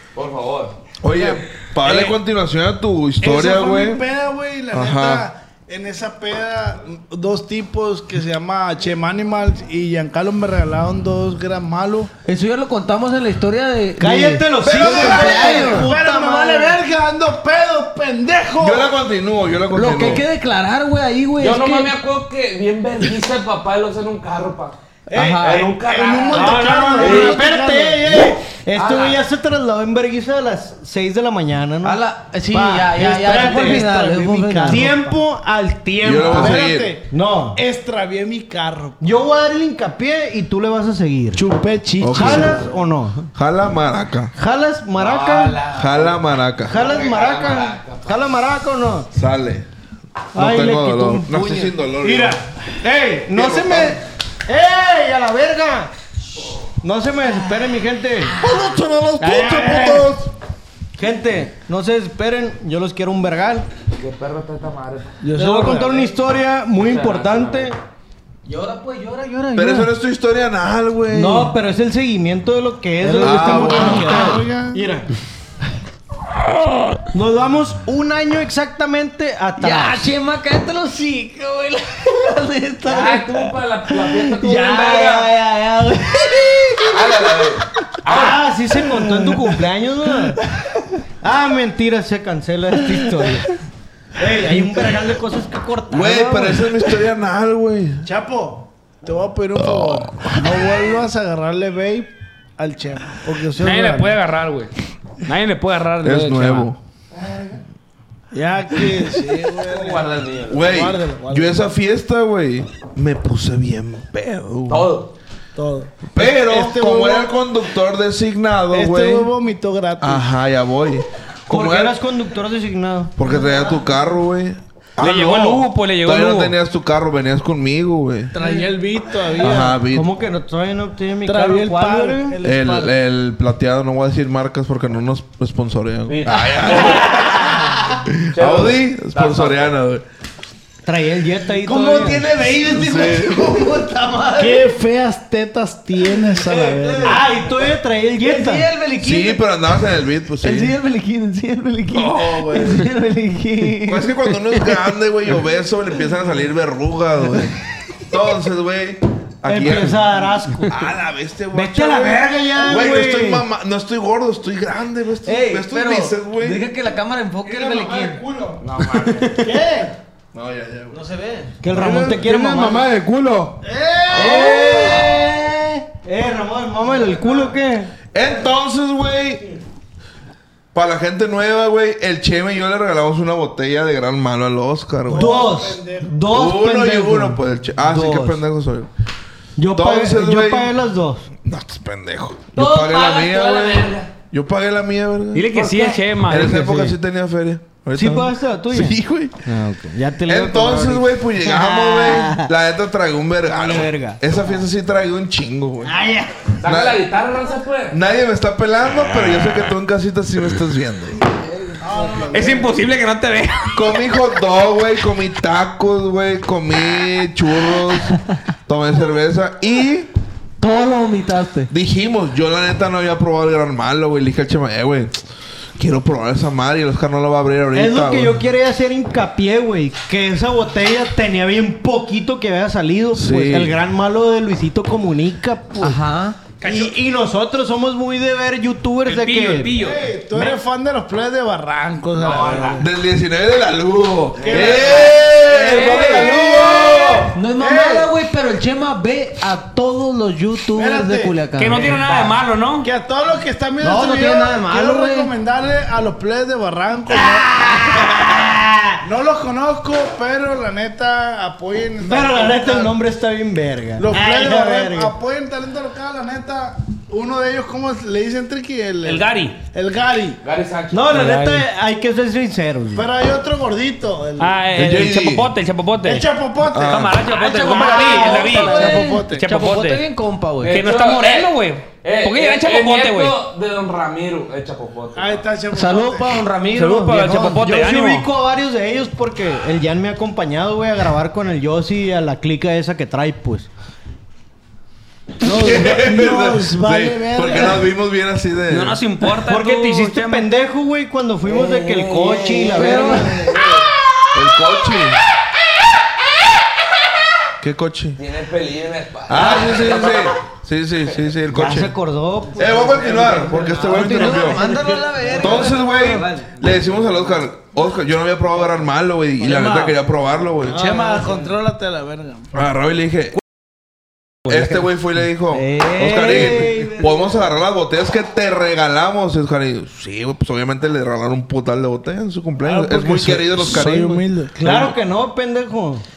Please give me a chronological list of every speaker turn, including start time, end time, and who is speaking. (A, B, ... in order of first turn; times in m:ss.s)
0:00.2-0:00.8 A
0:01.0-0:04.0 B
0:01.8-0:02.2 C
0:03.2-0:12.1 C
0:04.7-0:05.3 B
0:12.3-0:16.0 D
0:14.0-0:16.8 E
0:14.7-0:18.9 C
0:18.6-0:20.2 B
0:19.7-0:22.0 D
0:21.4-0:24.8 A
0:25.1-0:25.7 D
0:25.1-0:28.3 C
0:25.4-0:27.4 A
0:26.3-0:37.6 E
0:26.5-0:27.2 F
0:28.8-0:29.1 A
0:31.8-0:35.1 D
0:34.7-0:35.0 C
0:36.0-0:37.0 B
0:36.2-0:39.0 C
0:39.0-0:41.4 E
0:41.4-0:42.7 C
0:42.0-0:42.6 B
0:42.1-0:43.3 E
0:43.3-0:44.3 B
0:44.4-0:45.6 E
0:45.0-0:48.3 A
0:45.7-0:46.9 B
0:46.7-0:49.1 E
0:49.1-0:49.7 B
0:50.3-0:52.4 B
0:50.4-0:55.9 E
0:53.3-0:54.0 B
0:56.8-0:58.4 E
0:58.4-1:00.3 B
0:58.4-0:58.8 D
0:59.5-1:00.0 E
1:01.0-1:03.7 E
1:04.0-1:05.2 A
1:05.2-1:07.8 E
1:05.4-1:05.8 C
1:06.8-1:07.7 A
1:08.5-1:09.9 D
1:09.6-1:11.6 B
1:11.1-1:15.1 E
1:13.0-1:14.8 C
1:13.2-1:14.4 B
1:17.1-1:20.0 E
1:19.6-1:27.0 D
1:22.9-1:25.3 A
1:26.9-1:28.4 A
1:28.1-1:30.4 E
1:28.8-1:29.6 D
1:31.2-1:33.5 E
1:34.2-1:36.7 E
1:35.9-1:38.1 B
1:38.0-1:44.2 C
1:39.6-1:40.4 B
1:43.6-1:44.7 F
1:45.3-1:46.7 F
1:46.0-1:46.8 B
1:48.3-1:51.7 C
1:49.7-1:50.7 A
1:50.5-1:55.0 B
1:54.7-1:55.1 A
1:55.6-1:57.4 C
1:56.1-1:59.3 B
1:58.7-2:00.3 C
2:00.0-2:02.0 B
2:01.5-2:03.1 E
2:03.2-2:08.3 B
2:05.0-2:06.6 F
2:08.3-2:09.8 C
2:09.4-2:10.1 B
2:09.8-2:12.4 E
2:11.2-2:12.9 C
2:12.4-2:20.0 B
2:16.1-2:17.4 A
2:18.3-2:19.7 A
2:20.8-2:22.2 E
2:21.6-2:24.7 D
2:22.6-2:23.7 B
2:24.4-2:27.2 C
2:26.0-2:29.4 D
2:27.0-2:28.7 E
2:29.0-2:30.8 B
2:30.4-2:34.1 D
2:31.9-2:32.9 B
2:33.8-2:46.6 B
2:39.4-2:40.7 E
2:41.5-2:43.5 E
2:45.2-2:48.2 D
2:47.5-2:48.6 G
2:48.6-2:49.4 A
2:49.4-2:49.9 C
2:49.4-2:49.8 E
2:50.3-2:51.0 B
2:50.9-2:51.6 D
2:51.6-2:52.9 E
2:51.7-2:53.6 G
2:53.6-2:55.0 C
2:54.1-2:57.9 E
2:54.1-2:55.0 B
2:56.9-2:57.5 C
2:58.1-2:59.4 B
3:00.7-3:05.6 B
3:05.0-3:06.2 C
3:05.1-3:08.4 E
3:06.3-3:08.9 B
3:09.6-3:11.3 E
3:09.7-3:10.7 B
3:11.4-3:15.6 B
3:12.5-3:14.1 A
3:15.3-3:16.9 F
3:16.2-3:19.5 B
3:17.9-3:22.5 E
3:20.2-3:26.0 B
3:23.5-3:24.2 E
3:25.8-3:26.4 E
3:26.6-3:28.0 A
3:26.6-3:27.1 B
3:27.9-3:31.2 B
3:31.7-3:32.3 D
3:31.8-3:32.8 C
3:32.3-3:33.8 F
3:33.7-3:40.1 B
3:40.6-3:41.7 D
3:41.7-3:48.4 B
3:47.7-3:56.0 E
3:53.1-3:53.8 B
3:55.8-3:56.4 D
3:56.6-3:59.7 E
3:56.6-3:56.9 F
3:59.0-4:00.6 F
3:59.7-4:02.9 C
4:02.2-4:02.8 A
4:02.8-4:07.3 B
4:04.4-4:08.1 C
4:04.6-4:05.1 A
4:05.7-4:06.1 F
4:07.3-4:12.0 D
4:10.7-4:11.4 C
4:11.6-4:12.9 F
4:11.8-4:12.3 A
4:12.8-4:17.5 C
4:13.8-4:15.3 D
4:17.2-4:19.0 E
4:19.0-4:23.0 C
4:22.0-4:25.1 E
4:24.0-4:30.4 C
4:29.0-4:29.6 F
4:30.4-4:31.2 A
4:30.9-4:33.1 E
4:31.1-4:31.7 F
4:32.9-4:35.0 C
4:34.4-4:40.0 F
4:34.7-4:35.5 B
4:36.0-4:39.5 C
4:36.7-4:37.3 B
4:37.5-4:40.8 D
4:37.6-4:39.0 E
4:40.6-4:45.4 A
4:40.7-4:43.4 F
4:45.2-4:46.4 C
4:45.7-4:47.3 D
4:46.7-4:48.3 F
4:46.8-4:53.7 E
4:55.4-4:57.9 C
4:55.4-4:59.0 B
4:58.7-5:00.5 F
4:59.4-5:03.5 E
5:01.5-5:03.7 A
5:02.5-5:03.4 D
5:04.3-5:05.2 B
5:07.6-5:08.2 B
5:08.2-5:10.4 A
5:09.3-5:12.0 B
5:11.5-5:16.7 E
5:12.6-5:14.6 B
5:13.2-5:13.8 A
5:13.7-5:16.1 D
5:15.3-5:20.8 B
5:19.4-5:19.9 E
5:20.6-5:21.5 E
5:20.7-5:22.5 C
5:22.5-5:23.4 B
5:24.5-5:34.3 B
5:24.5-5:24.8 F
5:25.5-5:27.4 E
5:32.6-5:34.9 C
5:34.6-5:36.0 E